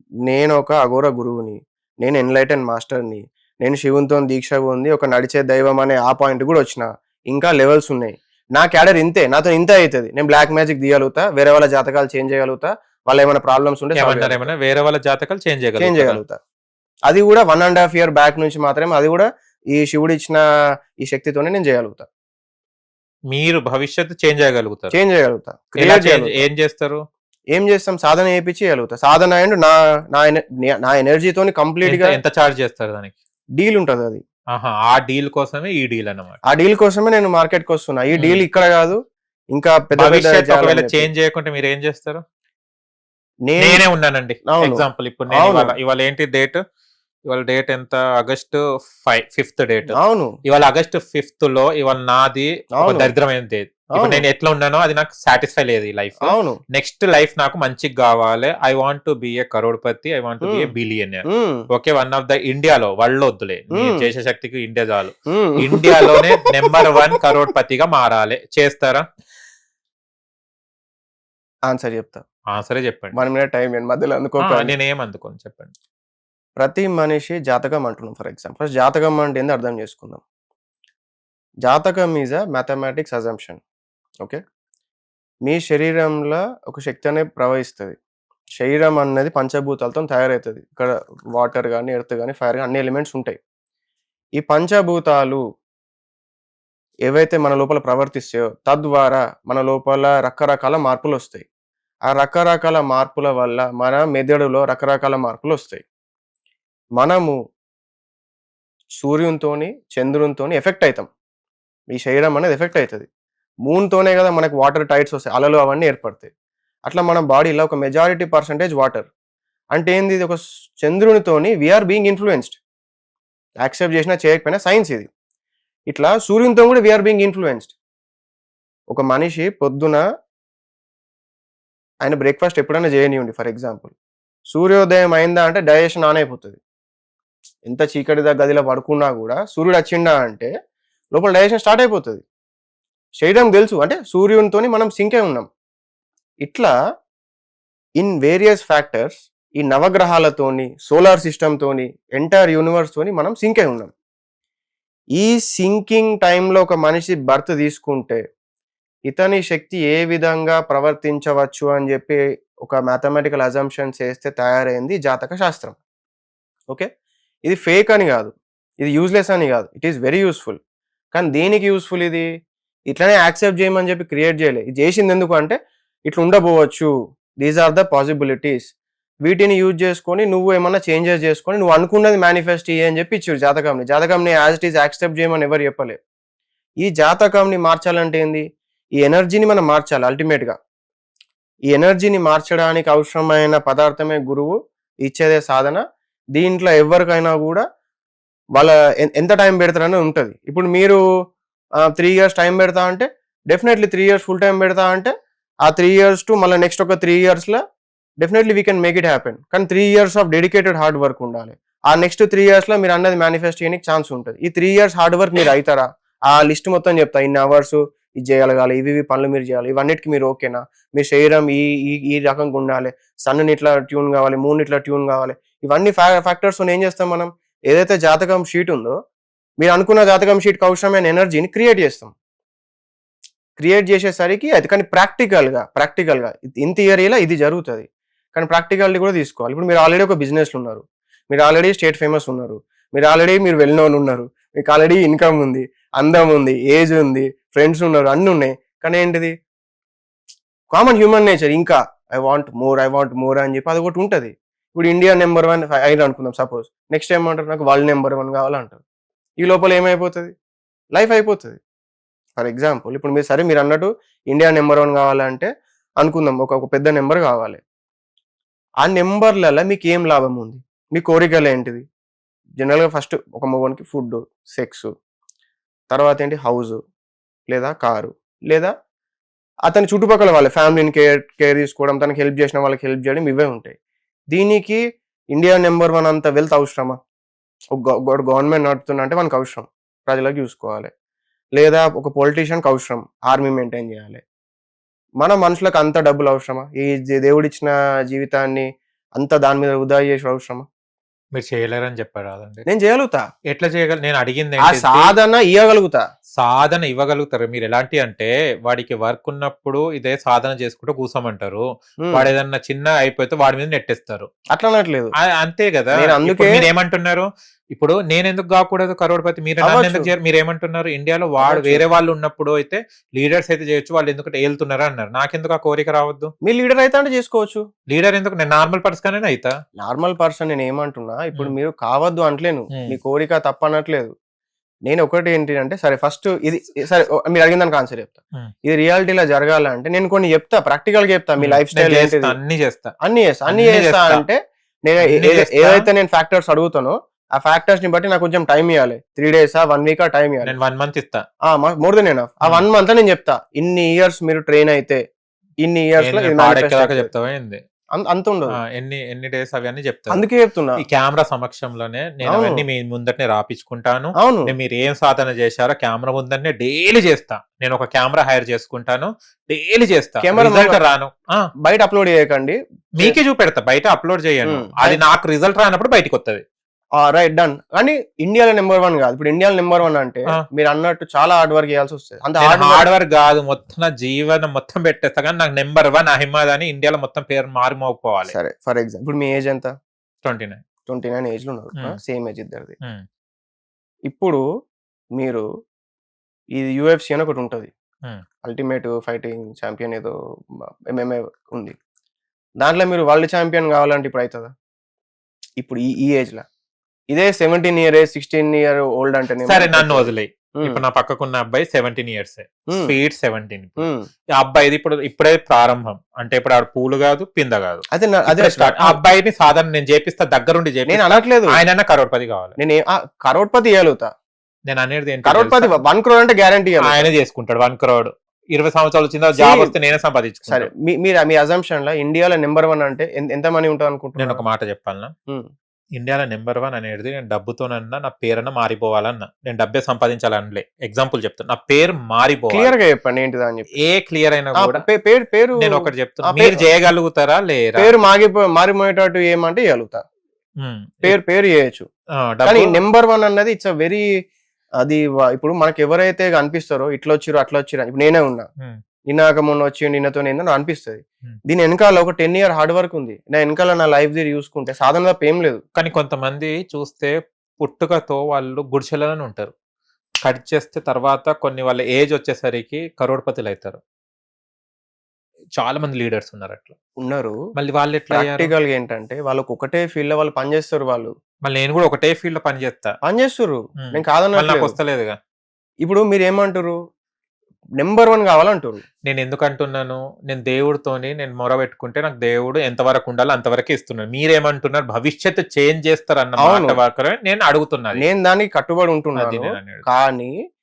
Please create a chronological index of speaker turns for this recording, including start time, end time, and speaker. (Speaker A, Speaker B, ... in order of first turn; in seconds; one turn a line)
Speaker A: 0.2-14.5
Speaker B: 13.9-16.2
Speaker A: 15.8-16.4
Speaker A: 17.1-20.4
Speaker A: 21.0-22.1
Speaker B: 23.3-24.9
Speaker A: 24.9-26.4
Speaker B: 25.8-27.0
Speaker A: 27.5-32.2
Speaker B: 31.8-33.1
Speaker A: 33.6-34.2
Speaker B: 34.5-36.4
Speaker A: 36.5-39.0
Speaker B: 38.1-38.4
Speaker A: 39.5-41.1
Speaker B: 40.0-42.2
Speaker A: 43.5-43.8
Speaker B: 43.6-46.6
Speaker A: 44.5-45.7
Speaker B: 47.3-69.0
Speaker A: 49.9-50.3
Speaker A: 52.8-53.1
Speaker A: 53.9-54.2
Speaker A: 56.2-56.6
Speaker A: 60.4-60.7
Speaker A: 61.2-61.6
Speaker A: 63.7-64.1
Speaker A: 65.3-66.2
Speaker A: 71.7-72.2
Speaker B: 72.5-73.2
Speaker A: 73.1-74.7
Speaker B: 74.4-75.7
Speaker A: 76.6-80.2
Speaker A: 81.6-83.6
Speaker A: 85.4-88.0
Speaker A: 88.6-93.4
Speaker A: 94.4-95.4
Speaker A: 97.1-101.5
Speaker A: 102.1-105.8
Speaker A: 107.0-107.3
Speaker A: 109.0-111.1
Speaker A: 111.9-113.1
Speaker A: 113.6-116.3
Speaker A: 116.9-119.1
Speaker A: 119.7-122.6
Speaker A: 123.6-125.1
Speaker A: 125.9-127.7
Speaker A: 128.9-130.0
Speaker A: 132.0-133.9
Speaker A: 134.5-136.6
Speaker A: 137.6-140.5
Speaker A: 141.1-142.2
Speaker A: 143.2-145.5
Speaker A: 146.4-146.7
Speaker A: 148.0-153.9
Speaker A: 155.2-158.2
Speaker A: 159.1-165.8
Speaker A: 167.4-170.6
Speaker A: 171.1-172.3
Speaker A: 172.9-178.7
Speaker A: 179.2-186.0
Speaker A: 186.8-188.4
Speaker A: 189.0-190.6
Speaker A: 191.7-195.8
Speaker A: 196.3-197.6
Speaker A: 198.6-201.0
Speaker A: 201.8-205.1
Speaker A: 205.6-207.6
Speaker A: 208.2-229.0
Speaker A: 229.6-232.1
Speaker A: 233.6-249.3
Speaker A: 250.7-258.8
Speaker A: 259.4-260.3
Speaker A: 260.9-261.6
Speaker A: 262.4-265.5
Speaker A: 266.0-267.6
Speaker A: 268.8-271.8
Speaker A: 272.6-274.9
Speaker A: 275.9-276.8
Speaker A: 277.5-278.7
Speaker A: 279.7-283.8
Speaker A: 284.3-284.8
Speaker A: 285.3-287.0
Speaker A: 287.7-290.9
Speaker A: 291.6-294.2
Speaker A: 295.2-300.6
Speaker B: 301.3-302.6
Speaker A: 302.7-303.2
Speaker B: 303.5-305.1
Speaker A: 304.6-306.0
Speaker B: 306.4-314.3
Speaker A: 312.0-312.3
Speaker A: 314.5-315.1
Speaker B: 315.2-326.3
Speaker A: 315.9-316.6
Speaker A: 319.6-320.1
Speaker A: 321.4-321.9
Speaker A: 326.4-327.6
Speaker B: 327.9-329.5
Speaker A: 329.8-334.1
Speaker A: 334.9-342.4
Speaker B: 341.4-342.9
Speaker A: 343.0-350.5
Speaker B: 343.5-344.2
Speaker B: 345.0-345.9
Speaker B: 350.4-351.2
Speaker A: 351.5-355.0
Speaker A: 355.6-357.1
Speaker B: 356.0-357.6
Speaker A: 357.9-358.6
Speaker B: 358.7-360.2
Speaker A: 360.1-360.8
Speaker B: 360.8-371.2
Speaker A: 362.2-362.6
Speaker A: 364.2-364.5
Speaker A: 370.2-370.8
Speaker A: 371.6-373.2
Speaker B: 373.0-376.4
Speaker A: 374.4-375.0
Speaker A: 377.0-382.9
Speaker B: 382.4-388.3
Speaker A: 388.3-389.7
Speaker B: 390.2-390.6
Speaker A: 390.9-392.7
Speaker A: 394.1-394.4
Speaker A: 395.1-395.4
Speaker A: 396.6-397.7
Speaker A: 398.4-400.1
Speaker A: 400.9-401.8
Speaker A: 402.6-404.5
Speaker A: 405.6-406.4
Speaker A: 407.1-410.8
Speaker B: 409.4-422.6
Speaker A: 412.7-412.9
Speaker A: 413.8-414.1
Speaker A: 417.9-419.0
Speaker A: 420.9-421.6
Speaker A: 422.6-424.1
Speaker B: 424.7-425.7
Speaker A: 425.2-427.1
Speaker B: 426.9-430.7
Speaker A: 429.4-429.7
Speaker A: 430.5-434.4
Speaker B: 434.2-435.1
Speaker B: 436.0-442.7
Speaker A: 442.5-443.7
Speaker B: 443.8-444.8
Speaker A: 444.6-446.7
Speaker B: 445.6-447.9
Speaker A: 447.8-450.0
Speaker B: 450.6-451.2
Speaker A: 451.0-451.9
Speaker B: 452.2-452.8
Speaker A: 452.4-454.0
Speaker A: 454.8-458.5
Speaker A: 459.1-465.6
Speaker B: 465.8-469.5
Speaker B: 470.2-473.8
Speaker B: 475.6-476.8
Speaker A: 477.0-477.4
Speaker B: 477.6-478.5
Speaker A: 478.1-481.1
Speaker B: 481.4-482.9
Speaker A: 483.0-484.8
Speaker B: 483.8-485.2
Speaker A: 485.8-486.8
Speaker A: 487.8-488.8
Speaker B: 489.1-498.0
Speaker A: 496.4-496.8
Speaker A: 497.9-500.3
Speaker B: 499.2-499.8